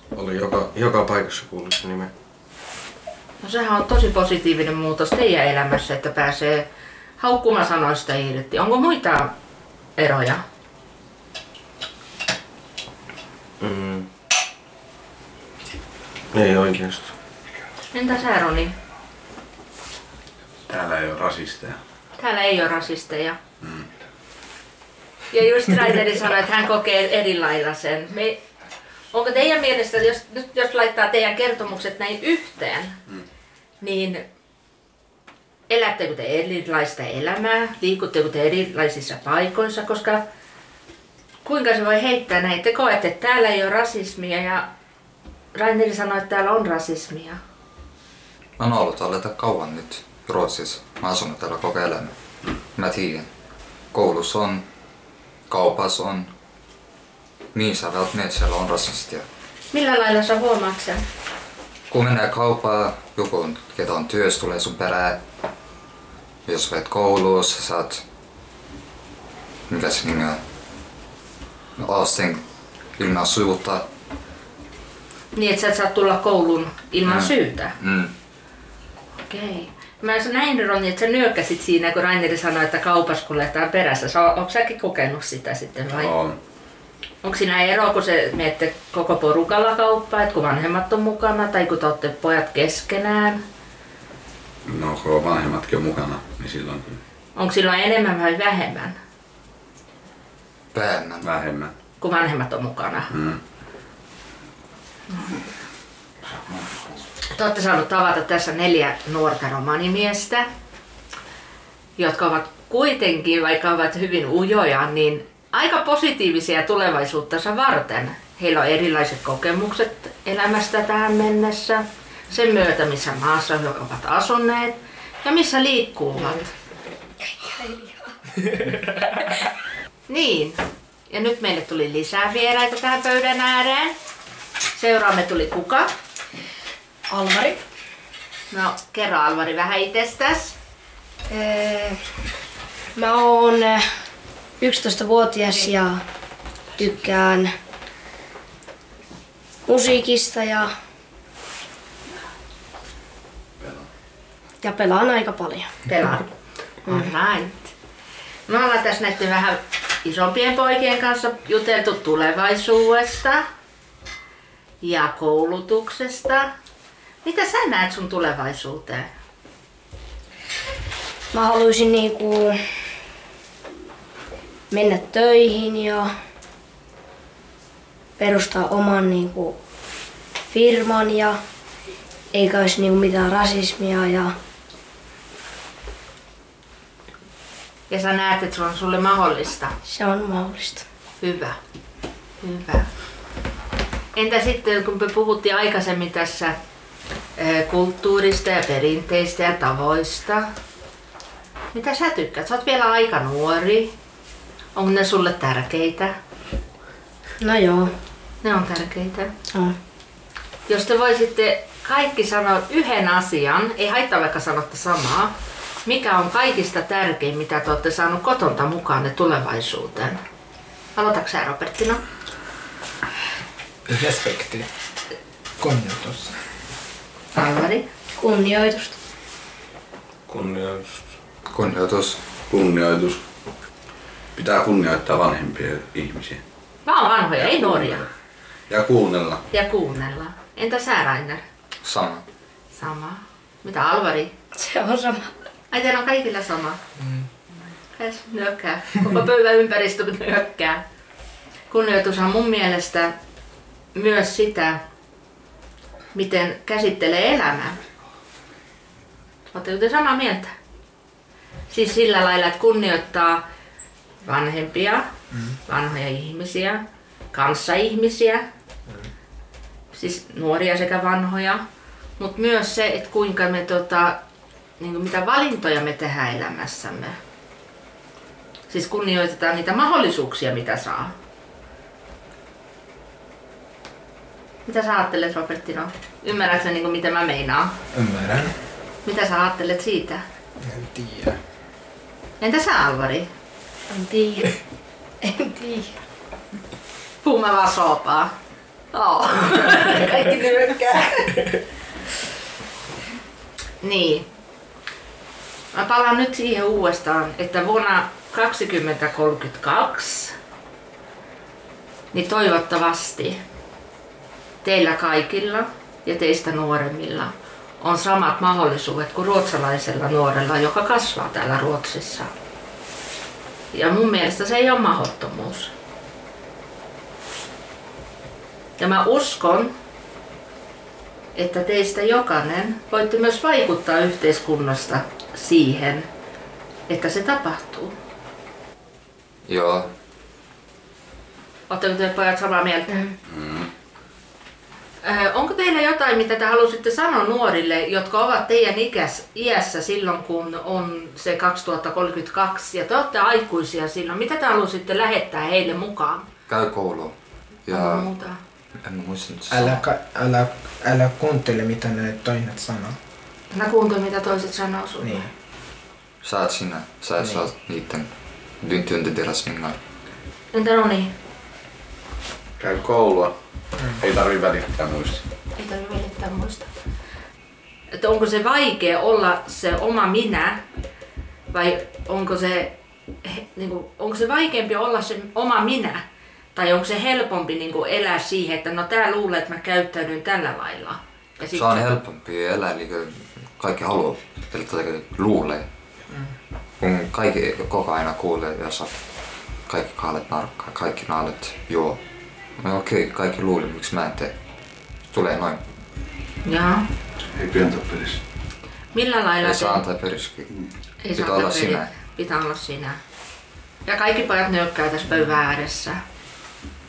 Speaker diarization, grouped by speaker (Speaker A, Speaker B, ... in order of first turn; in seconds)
Speaker A: 0.1-2.1, 13.6-14.1, 16.3-17.1, 230.3-231.0
Speaker B: 3.4-6.7, 7.2-9.3, 10.0-10.4, 17.9-18.7, 22.2-23.4, 25.3-28.4, 29.1-33.0, 33.8-34.2, 35.7-40.2, 41.4-44.7, 45.5-47.4, 59.7-61.0, 75.3-77.8, 79.3-86.1, 87.2-93.4, 97.3-99.0, 102.0-103.1, 107.2-110.5, 112.0-126.5, 130.1-133.9, 134.7-135.9, 138.5-140.6, 155.9-156.3, 156.8-157.7, 158.5-163.4, 164.8-166.5, 167.2-169.1, 187.9-189.8, 191.2-191.6, 192.4-192.9, 194.2-196.6, 197.4-200.5, 201.7-203.9, 204.7-206.1, 208.4-209.3, 210.7-215.3, 215.8-220.2, 220.9-222.0, 227.3-227.8, 236.8-238.1, 239.5-241.4, 242.7-244.3, 245.7-246.8, 248.0-250.8, 251.7-253.1, 253.9-254.8, 256.1-257.8, 259.5-260.5, 261.7-263.4, 264.2-265.1, 265.7-268.4, 269.9-271.6, 272.2-274.2, 274.8-277.2, 278.7-281.1, 284.6-287.8, 289.0-290.2, 292.4-293.3, 297.2-298.3, 298.9-301.4, 303.8-304.3, 305.7-310.3, 312.1-313.4, 314.6-322.3, 323.7-325.7, 328.8-329.7, 331.3-336.1, 336.9-337.9, 341.7-343.0, 345.0-356.3, 357.7-358.4, 363.5-365.3, 370.5-371.1, 375.6-376.7, 377.9-380.6, 381.5-386.0, 386.5-391.9, 406.4-406.9, 408.9-409.8, 411.0-413.0, 413.9-416.0
Speaker C: 20.7-21.8, 85.9-86.4, 94.7-97.0, 101.2-101.7, 103.1-103.4, 232.5-233.2, 234.3-236.4, 237.4-238.1, 238.7-239.4, 343.3-343.7, 372.6-373.3, 373.9-375.2, 407.4-408.2
Speaker D: 48.6-52.1, 52.8-53.3, 53.9-54.6, 55.5-56.3, 57.5-59.2, 61.9-65.2, 66.5-68.0, 69.7-70.4, 71.8-72.4, 73.0-73.9, 77.0-78.1, 100.7-101.3, 231.5-232.2, 241.8-242.2, 339.4-339.9, 356.5-358.1, 358.8-359.8, 366.2-368.1, 368.6-369.8, 391.5-395.6, 396.8-398.9, 399.7-402.0, 402.6-404.3, 405.1-405.6, 409.4-410.5, 411.1-411.9
Speaker E: 127.3-127.9, 137.1-137.6, 141.3-142.0, 142.9-143.8, 144.6-146.0, 146.8-147.5, 149.7-150.7, 154.6-155.7, 171.3-172.6, 174.7-176.1, 178.2-179.6, 180.5-181.4, 182.3-184.3, 189.8-190.8, 207.4-207.9, 228.2-229.0, 244.6-245.3, 293.9-294.6, 295.2-296.0
Speaker F: 223.9-224.7, 225.6-226.3, 287.9-288.5, 290.6-291.4, 359.5-363.0, 365.0-365.3, 367.2-367.4